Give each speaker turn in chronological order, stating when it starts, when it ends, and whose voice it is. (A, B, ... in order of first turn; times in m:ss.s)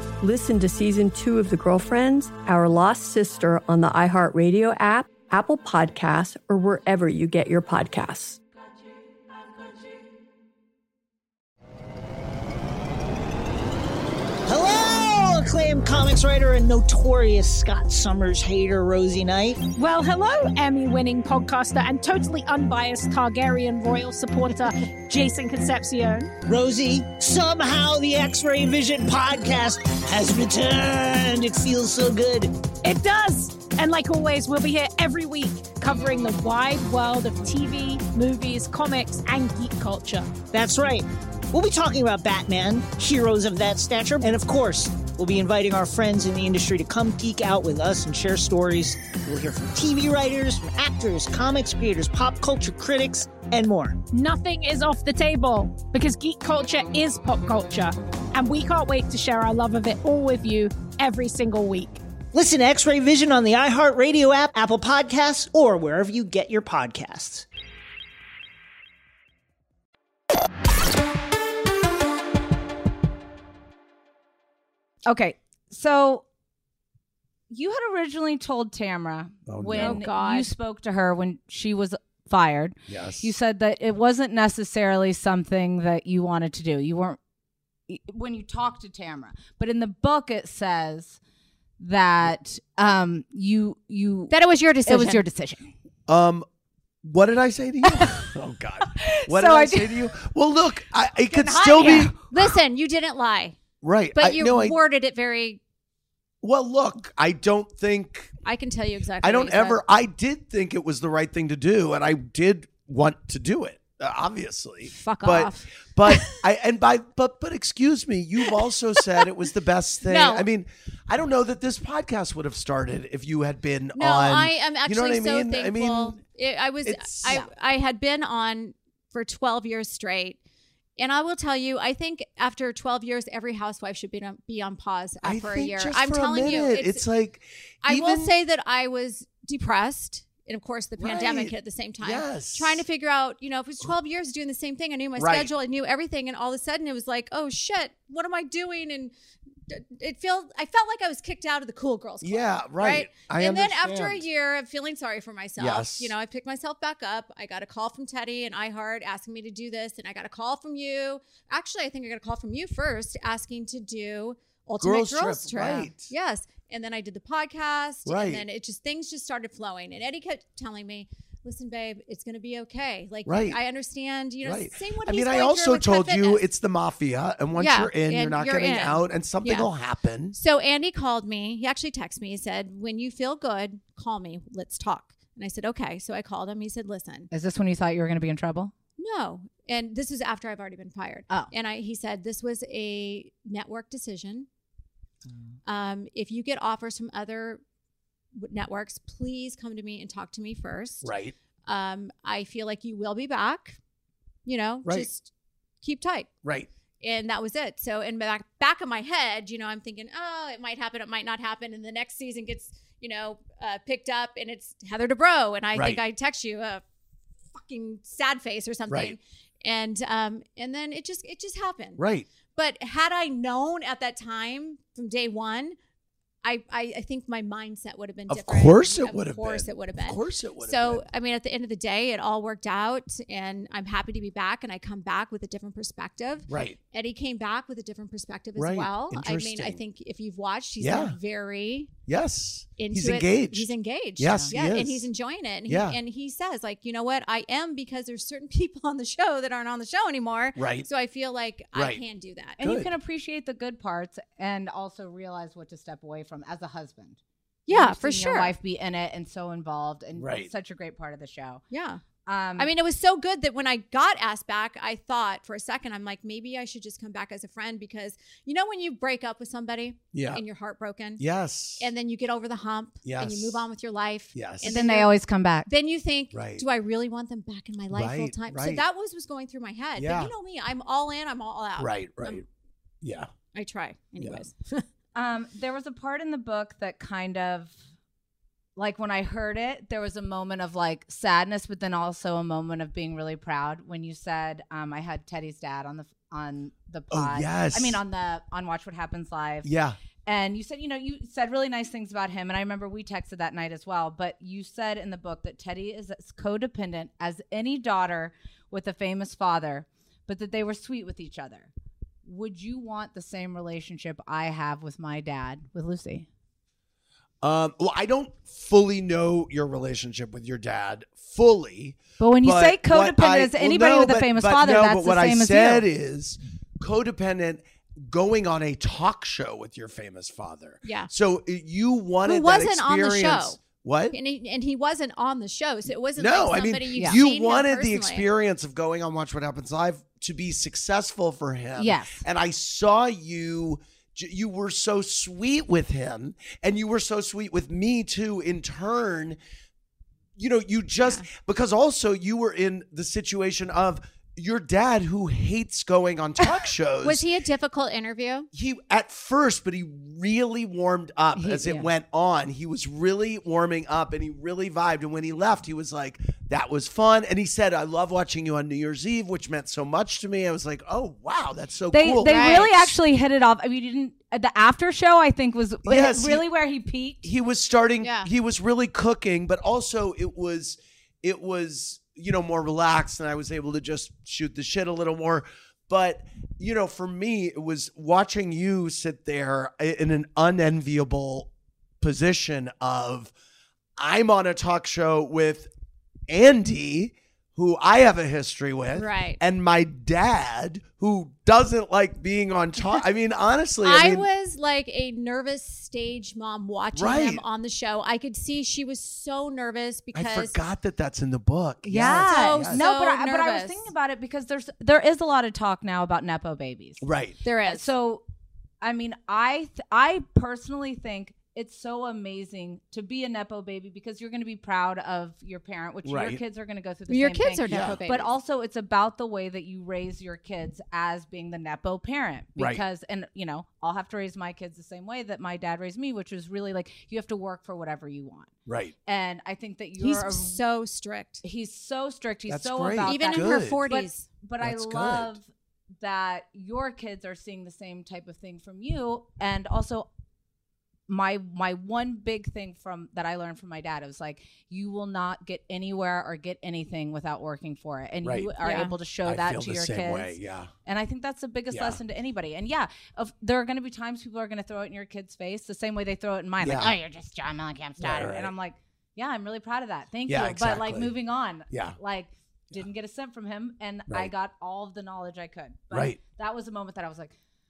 0:00.2-0:08.4 A
0:14.4-0:19.6 B
0:19.7-0:26.3 C
0:26.5-0:32.6 B
0:32.8-0:40.4 C
0:40.5-0:54.0 B
0:54.1-1:02.0 C
1:02.3-1:07.4 B
1:15.0-1:16.2 D
1:17.5-1:27.2 D
1:19.5-1:20.0 E
1:19.7-1:20.5 F
1:22.9-1:23.3 E
1:27.9-1:31.2 D
1:31.8-1:34.3 D
1:34.3-1:35.2 F
1:34.8-1:35.7 D
1:36.1-1:36.4 E
1:37.0-1:42.2 E
1:37.9-1:38.2 D
1:38.9-1:40.1 D
1:41.3-1:43.6 F
1:41.6-1:42.2 D
1:43.8-1:44.8 E
1:44.2-1:45.6 F
1:46.4-1:48.3 E
1:48.4-1:49.8 F
1:49.2-2:06.2 E
1:54.9-1:56.3 F
2:00.0-2:00.4 F
2:04.0-2:10.4 F
2:06.8-2:07.4 E
2:11.0-2:17.0 F
2:15.2-2:18.3 E
2:17.8-2:29.1 F
2:21.0-2:22.8 E
2:25.2-2:25.5 E
2:29.7-2:56.4 F
2:32.2-2:34.2 E
2:35.6-2:36.1 E
2:44.8-2:46.1 E
2:48.0-2:48.4 E
2:53.2-2:53.6 E
2:54.4-3:00.4 E
2:57.6-2:59.7 F
3:00.3-3:07.3 F
3:07.3-3:08.7 D
3:09.0-3:14.5 F
3:15.6-3:17.6 F
3:18.3-3:21.1 F
3:21.0-3:21.3 E
3:21.7-3:23.8 F
3:24.4-3:25.3 F
3:25.8-3:26.3 F
3:27.0-3:36.8 F
3:35.7-3:36.0 E
3:37.5-3:42.0 F
3:38.9-3:39.2 E
3:42.0-3:42.3 E
3:42.5-3:45.8 F
3:46.4-4:01.9 F
3:48.3-3:51.0 E
3:56.5-3:56.8 E
3:58.6-3:59.8 E
4:00.8-4:01.2 E
4:02.1-4:05.1 E
4:02.8-4:12.6 F
4:05.7-4:06.0 E
4:10.6-4:10.9 E
4:11.7-4:12.0 E
4:12.6-4:21.6 D
4:12.6-4:12.9 E
4:17.7-4:18.5 F
4:20.2-4:20.5 E
4:21.7-4:22.0 F
4:22.2-4:22.7 D
4:22.6-4:31.2 F
4:30.1-4:30.4 E
4:31.2-4:31.9 E
4:31.8-4:35.1 F
4:33.0-4:33.6 E
4:34.3-4:34.8 E
4:34.6-4:35.7 D
4:35.6-4:42.4 F
4:36.3-4:36.6 E
4:37.9-4:38.8 E
4:40.0-4:40.3 E
4:41.8-4:42.4 E
4:43.0-4:43.3 E
4:43.5-4:44.8 F
4:45.1-4:47.8 D
4:48.8-4:59.7 D
4:57.1-4:58.0 E
4:59.6-5:00.0 E
5:00.2-5:11.7 D
5:12.2-5:16.3 D
5:17.4-5:34.2 E
5:22.2-5:25.9 D
5:30.8-5:31.1 F
5:32.2-5:38.2 F
5:36.2-5:49.4 E
5:41.8-5:42.2 D
5:50.4-5:57.2 E
5:57.0-5:58.5 F
5:58.5-6:12.9 E
6:01.4-6:01.9 D
6:11.9-6:17.2 D
6:12.2-6:12.7 F
6:15.8-6:16.4 E
6:17.2-6:31.5 E
6:18.0-6:18.3 F
6:32.0-6:33.3 E
6:34.0-6:35.7 E
6:36.3-6:44.3 E
6:38.9-6:39.4 F
6:43.8-6:50.6 F
6:46.9-6:47.4 E
6:50.1-6:52.8 E
6:51.8-6:57.0 D
6:52.1-6:53.8 F
6:57.0-6:57.4 E
6:57.4-6:57.9 F
6:57.6-6:58.2 D
6:58.8-7:18.5 D
7:06.0-7:06.4 E
7:07.1-7:08.3 F
7:07.7-7:08.0 E
7:12.6-7:12.8 E
7:18.6-7:18.9 E
7:19.0-7:20.6 D
7:20.0-7:21.4 F
7:21.4-7:30.1 D
7:22.5-7:23.8 E
7:23.0-7:24.3 F
7:24.6-7:25.4 E
7:31.1-7:57.3 D
7:38.2-7:38.5 E
7:38.6-7:38.9 F
7:39.2-7:40.7 E
7:41.7-7:42.0 E
7:46.6-7:46.9 E
7:48.0-7:48.5 E
7:50.3-7:51.1 E
7:51.7-7:52.0 E
7:55.9-7:56.2 E